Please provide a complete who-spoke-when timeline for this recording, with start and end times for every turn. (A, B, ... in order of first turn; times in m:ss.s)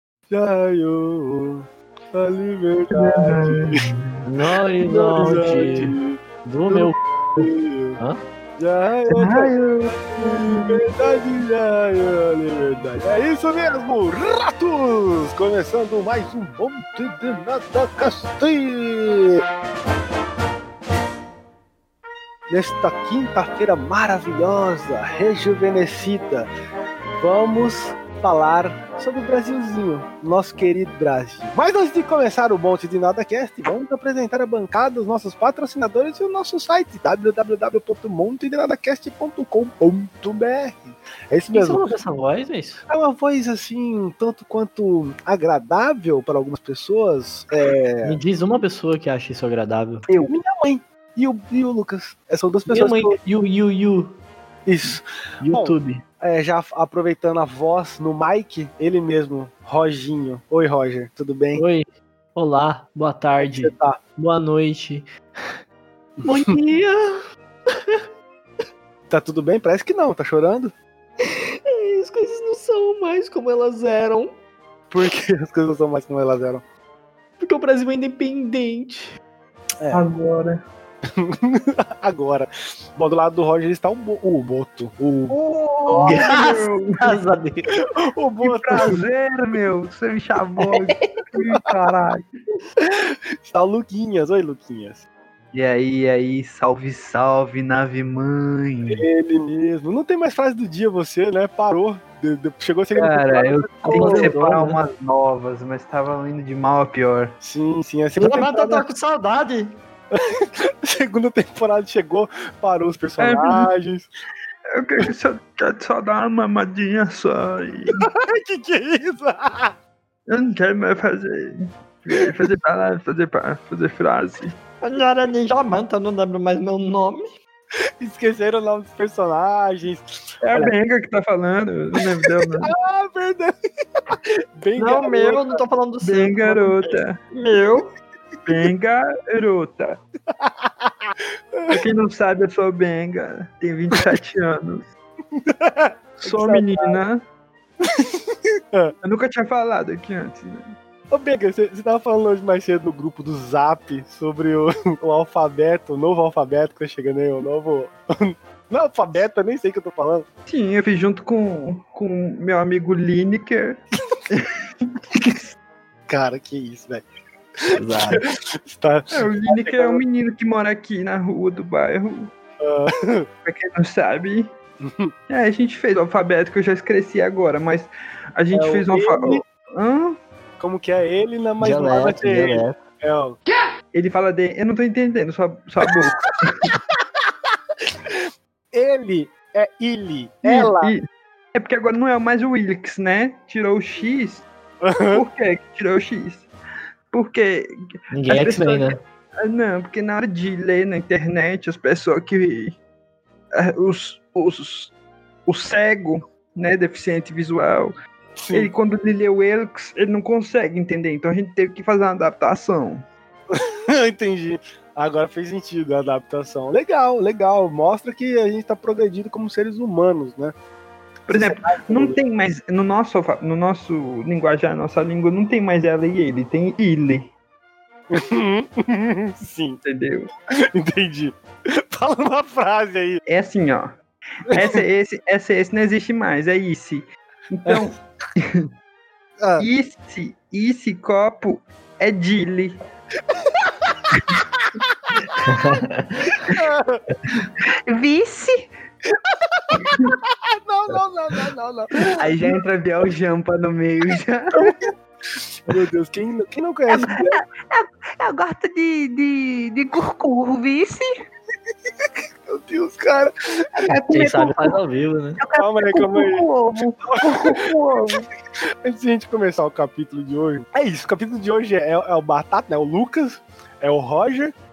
0:00.3-0:03.8 A
0:02.9-0:04.2 B
0:04.2-0:08.2 C
0:04.8-0:06.2 A
0:06.7-0:08.0 A
0:08.6-0:19.4 A
0:09.1-0:10.8 B
0:22.5-0:26.5 A
0:27.2-0:41.8 A
0:41.5-0:42.8 C
0:42.9-0:48.2 A
0:48.0-0:50.0 C
0:50.1-0:50.3 B
0:50.3-0:53.2 A
0:52.7-0:54.2 C
0:54.6-1:01.6 A
0:55.4-0:56.0 C
1:01.5-1:05.1 C
1:03.4-1:04.0 A
1:06.2-1:06.5 A
1:06.2-1:07.2 C
1:09.1-1:10.7 A
1:11.2-1:14.4 C
1:14.9-1:16.6 A
1:17.4-1:19.2 C
1:19.9-1:20.6 B
1:21.0-1:25.4 A
1:25.3-1:27.0 B
1:25.9-1:27.7 C
1:25.9-1:26.4 A
1:27.9-1:29.0 A
1:28.4-1:32.2 B
1:32.8-1:35.0 A
1:35.5-1:39.0 B
1:38.9-1:44.4 A
1:42.9-1:47.4 B
1:43.8-1:44.8 C
1:47.4-1:48.9 A
1:48.2-1:49.8 C
1:50.1-1:54.1 A
1:53.2-1:53.7 B
1:54.7-1:58.0 B
1:57.9-1:59.7 A
2:00.3-2:04.6 B
2:04.8-2:07.4 C
2:08.0-2:10.7 A
2:10.4-2:12.7 B
2:12.0-2:13.5 A
2:14.1-2:15.6 A
2:14.8-2:17.8 C
2:16.0-2:17.9 B
2:18.4-2:20.0 B
2:20.4-2:21.8 A
2:21.7-2:24.9 B
2:25.4-2:27.0 A
2:26.2-2:27.2 B
2:27.8-2:28.9 A
2:29.0-2:30.7 B
2:31.1-2:40.3 A
2:40.5-2:44.5 B
2:46.1-2:47.0 A
2:47.7-2:50.0 A
2:47.7-2:48.2 C
2:49.1-2:52.3 B
2:52.6-2:53.3 A
2:53.4-2:54.5 B
2:54.8-2:55.1 A
2:55.3-3:00.2 B
2:58.5-2:59.4 A
3:00.6-3:03.4 A
3:01.6-3:02.8 C
3:03.9-3:06.7 B
3:07.9-3:10.9 A
3:10.4-3:14.5 B
3:14.8-3:15.2 A
3:15.1-3:16.5 B
3:17.1-3:22.8 B
3:18.1-3:19.0 C
3:23.5-3:24.9 B
3:25.4-3:27.9 B
3:28.4-3:28.7 A
3:28.5-3:33.0 B
3:33.5-3:40.5 A
3:41.3-3:47.3 B
3:41.3-3:42.2 A
3:48.1-3:49.8 A
3:49.8-3:50.3 B
3:50.7-3:53.2 A
3:53.3-3:58.7 B
3:54.5-3:54.8 A
3:57.6-3:57.9 A
3:59.4-3:59.6 A
3:59.6-4:02.8 B
4:05.4-4:06.3 C
4:06.5-4:07.0 A
4:07.3-4:08.7 B
4:09.8-4:10.2 B
4:10.5-4:12.5 A
4:12.1-4:14.9 B
4:15.6-4:17.4 A
4:16.9-4:21.1 B
4:22.5-4:23.9 A
4:23.8-4:24.8 B
4:24.1-4:25.4 C
4:25.4-4:28.2 B
4:25.6-4:26.4 A
4:27.1-4:28.2 A
4:28.8-4:34.5 A